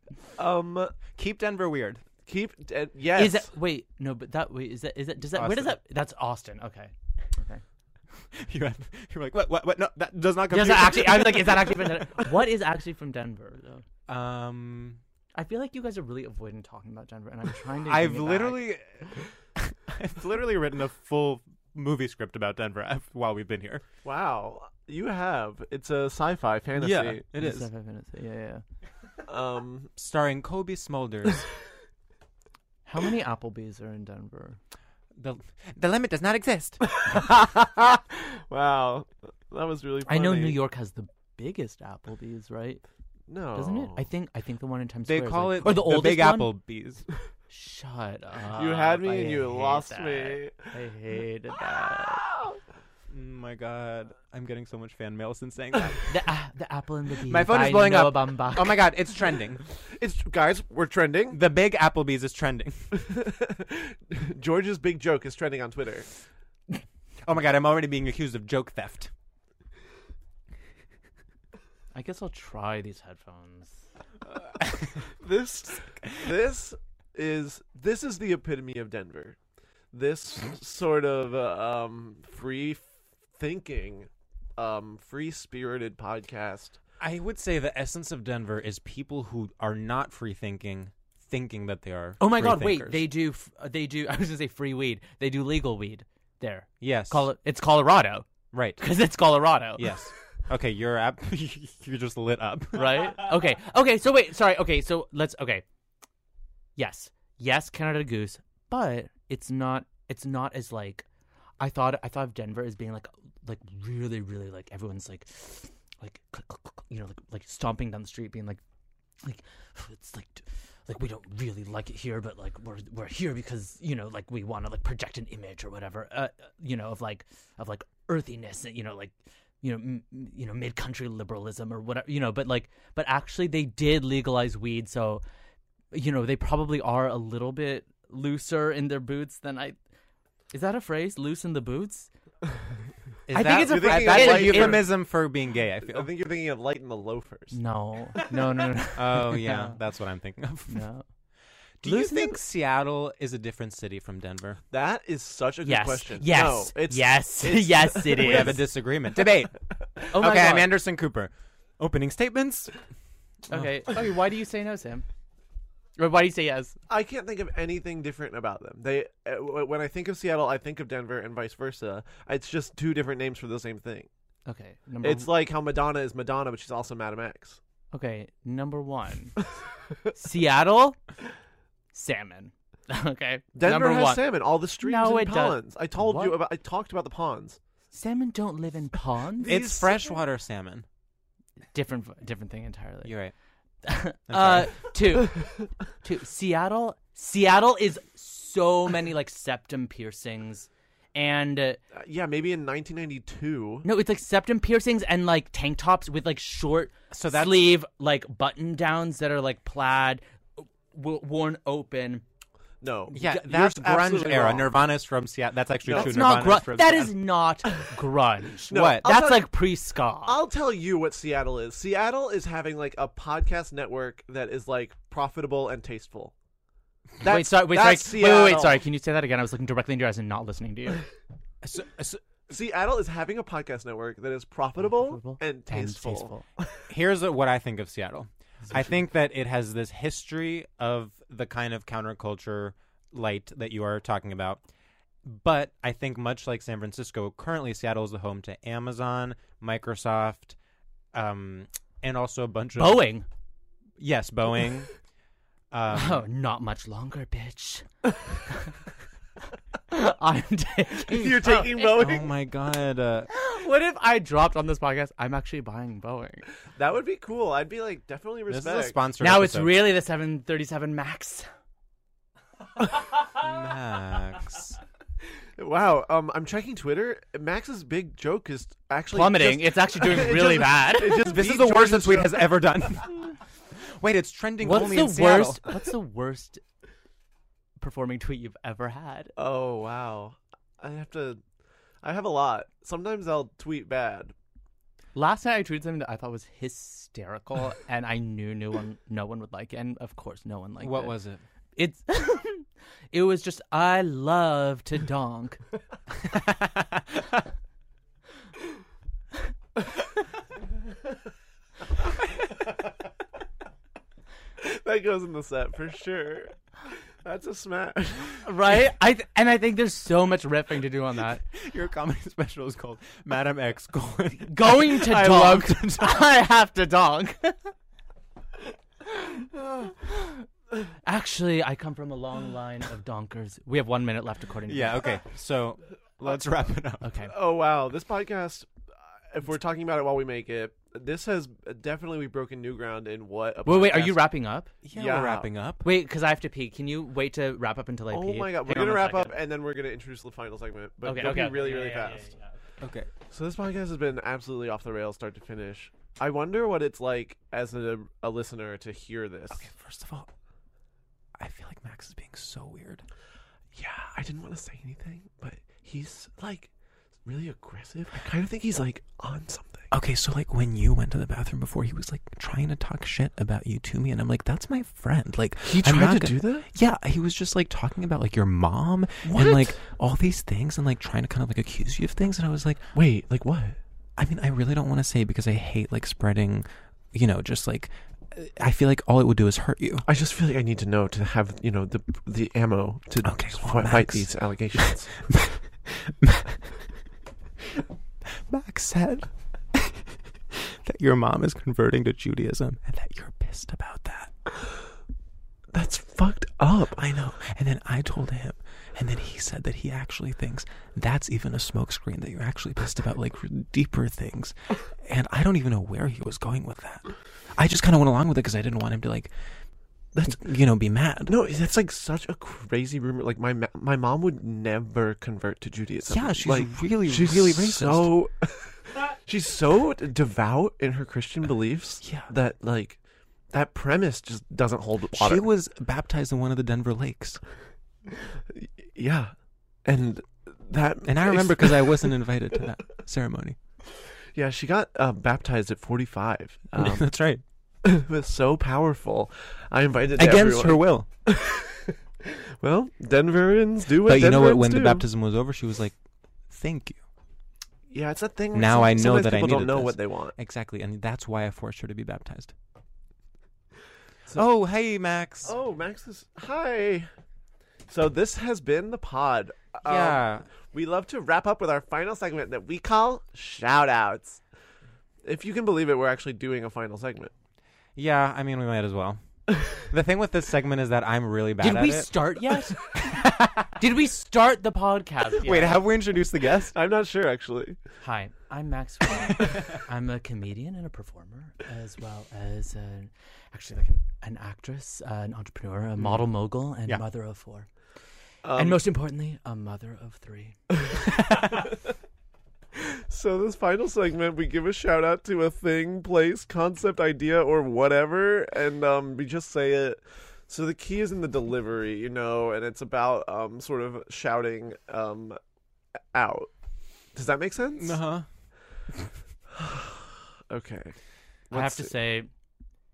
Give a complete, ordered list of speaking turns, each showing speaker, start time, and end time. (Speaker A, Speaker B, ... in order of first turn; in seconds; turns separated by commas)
Speaker A: 0.4-0.9, Speaker B: 1.2-2.0, Speaker A: 2.3-3.5, Speaker C: 3.1-7.6, Speaker B: 5.3-5.8, Speaker B: 8.4-12.2, Speaker C: 10.5-13.8, Speaker B: 14.1-15.0, Speaker C: 15.3-18.7, Speaker B: 17.9-19.1, Speaker B: 19.6-23.8, Speaker A: 24.0-27.2, Speaker B: 26.8-27.7, Speaker C: 27.4-28.6, Speaker A: 29.3-29.9, Speaker B: 30.0-31.5, Speaker C: 32.9-34.6, Speaker B: 35.2-36.8, Speaker A: 36.9-40.6, Speaker C: 40.1-42.8, Speaker A: 43.3-44.1, Speaker C: 43.5-46.6, Speaker B: 45.1-47.1, Speaker C: 47.5-52.3, Speaker A: 48.5-50.7, Speaker B: 53.1-56.0, Speaker C: 56.1-58.9, Speaker B: 57.3-59.6, Speaker A: 59.9-61.4, Speaker B: 61.3-62.9, Speaker A: 63.0-66.1, Speaker B: 67.2-69.1, Speaker C: 71.9-73.8, Speaker A: 75.2-79.4, Speaker A: 79.9-86.8, Speaker B: 87.0-93.0, Speaker C: 92.2-98.3, Speaker B: 96.8-97.3, Speaker B: 98.5-98.8, Speaker C: 98.8-100.0, Speaker B: 99.8-103.1, Speaker C: 102.7-105.6, Speaker C: 106.8-111.1, Speaker C: 111.6-118.6, Speaker C: 119.2-135.2, Speaker C: 135.9-139.8, Speaker C: 140.5-142.1, Speaker B: 143.3-146.1, Speaker C: 143.3-144.8, Speaker A: 143.5-145.1, Speaker A: 145.8-147.6, Speaker C: 147.5-149.8, Speaker B: 149.0-150.8, Speaker C: 150.7-151.1, Speaker B: 151.8-154.6, Speaker C: 151.8-152.4, Speaker A: 154.7-158.7, Speaker C: 155.6-158.7, Speaker B: 158.2-159.6, Speaker C: 160.1-160.7, Speaker B: 160.2-162.7, Speaker C: 163.5-165.1, Speaker C: 166.0-166.8, Speaker A: 166.9-174.1, Speaker C: 174.5-175.3, Speaker A: 175.0-177.6, Speaker C: 177.9-179.4, Speaker C: 180.1-181.0, Speaker C: 181.9-186.4, Speaker A: 183.6-187.6, Speaker C: 187.9-189.5, Speaker A: 189.4-190.1, Speaker B: 189.4-190.8, Speaker C: 191.7-193.2, Speaker B: 193.1-193.3, Speaker C: 193.8-201.8, Speaker B: 194.3-194.8, Speaker A: 201.9-203.9, Speaker C: 203.8-212.2, Speaker B: 207.1-207.6, Speaker A: 212.8-214.8, Speaker B: 213.1-217.2, Speaker A: 215.8-216.4, Speaker C: 215.9-220.4, Speaker A: 218.7-219.7, Speaker B: 218.7-219.1, Speaker A: 220.2-226.3, Speaker A: 227.2-228.8, Speaker C: 227.2-231.1, Speaker B: 231.6-232.2, Speaker A: 232.5-236.8, Speaker C: 234.8-236.4, Speaker B: 236.9-244.6, Speaker C: 238.6-239.0, Speaker B: 245.2-250.6, Speaker B: 251.1-253.1, Speaker C: 252.8-253.3, Speaker B: 254.0-254.9, Speaker B: 255.7-256.2, Speaker C: 255.9-257.9, Speaker C: 259.9-262.0, Speaker A: 261.1-262.3, Speaker B: 262.0-263.3, Speaker C: 263.3-266.5, Speaker A: 266.8-269.0, Speaker B: 268.5-269.8, Speaker C: 269.2-271.5, Speaker B: 273.4-274.8, Speaker A: 275.6-282.6, Speaker C: 279.1-281.3, Speaker B: 281.1-285.6, Speaker C: 284.6-286.6, Speaker C: 287.8-289.3, Speaker A: 289.4-291.4, Speaker A: 292.0-294.3, Speaker C: 295.1-301.2, Speaker B: 300.8-301.4, Speaker C: 301.8-305.6, Speaker B: 306.2-307.2, Speaker A: 314.6-316.5, Speaker A: 317.2-318.4, Speaker C: 318.4-321.4, Speaker B: 321.5-326.2, Speaker C: 324.5-327.7, Speaker C: 330.0-330.5, Speaker C: 331.1-335.1, Speaker B: 334.7-337.1, Speaker C: 337.0-337.3, Speaker A: 337.2-338.7, Speaker A: 339.3-344.2, Speaker C: 343.6-344.8, Speaker B: 344.8-345.9, Speaker A: 344.9-345.5, Speaker C: 345.8-349.4, Speaker A: 348.1-352.3, Speaker C: 351.0-352.5, Speaker B: 352.8-353.1, Speaker A: 353.3-359.7, Speaker B: 359.5-360.3, Speaker B: 361.4-363.0, Speaker A: 363.7-366.7, Speaker A: 367.2-369.9, Speaker B: 369.9-382.8, Speaker A: 375.6-376.7, Speaker A: 379.2-379.8, Speaker A: 382.9-383.8, Speaker B: 384.2-390.1, Speaker A: 390.1-395.3, Speaker B: 393.2-396.6, Speaker B: 398.5-399.9, Speaker B: 400.8-404.3, Speaker A: 405.7-407.0, Speaker B: 407.0-419.3, Speaker A: 420.1-420.4, Speaker B: 420.2-421.3, Speaker A: 421.3-433.0, Speaker B: 426.1-428.1, Speaker B: 432.0-432.3, Speaker A: 433.5-435.5, Speaker B: 435.1-437.4, Speaker A: 438.9-439.3, Speaker A: 439.9-442.1, Speaker B: 441.1-443.6, Speaker A: 444.4-447.3, Speaker B: 446.8-447.4, Speaker A: 447.8-451.9, Speaker B: 450.2-451.1, Speaker A: 452.6-455.1, Speaker B: 454.0-456.0, Speaker B: 456.5-457.0, Speaker A: 457.9-460.4, Speaker B: 458.5-462.5, Speaker B: 464.3-465.5, Speaker A: 465.4-467.1, Speaker A: 467.9-474.4, Speaker B: 469.8-470.5, Speaker A: 475.2-477.3, Speaker B: 478.0-479.2, Speaker B: 479.8-482.2, Speaker C: 481.6-483.2, Speaker B: 482.9-483.7, Speaker C: 483.8-485.8, Speaker B: 485.4-486.8, Speaker A: 486.7-487.8, Speaker C: 488.0-497.7, Speaker A: 498.4-498.8, Speaker C: 498.6-500.6, Speaker A: 500.9-501.7, Speaker A: 503.1-515.4, Speaker A: 516.1-516.5, Speaker A: 517.1-518.0, Speaker B: 517.8-518.3, Speaker A: 519.5-521.0, Speaker A: 521.5-522.0, Speaker C: 521.5-522.3